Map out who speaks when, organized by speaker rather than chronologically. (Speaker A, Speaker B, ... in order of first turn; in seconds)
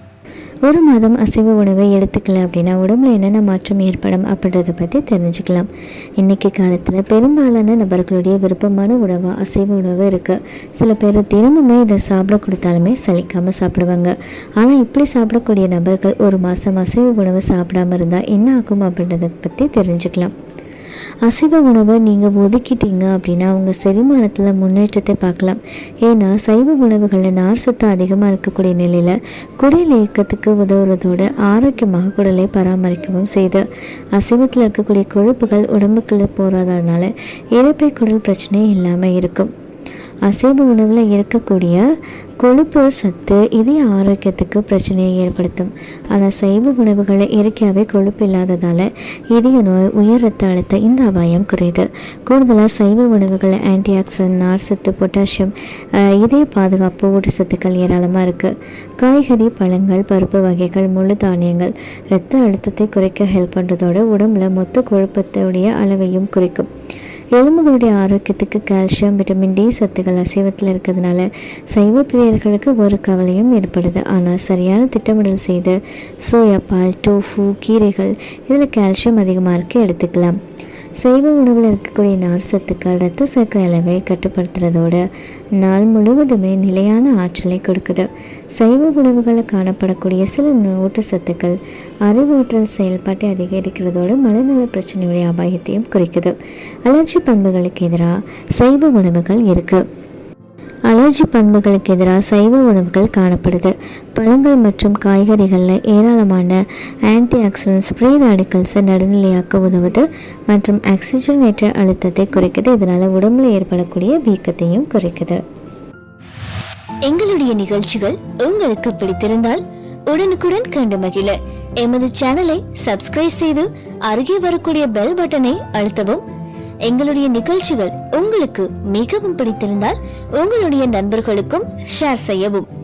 Speaker A: 0.7-20.3, 21.2-39.5, 40.2-41.8, 42.4-55.5, 56.0-66.7, 67.3-80.4, 81.0-85.0, 85.6-99.8, 100.9-115.4, 117.1-118.9, 122.2-122.7, 124.2-124.4
Speaker B: 117.1-119.6, 120.1-126.2, 126.8-132.7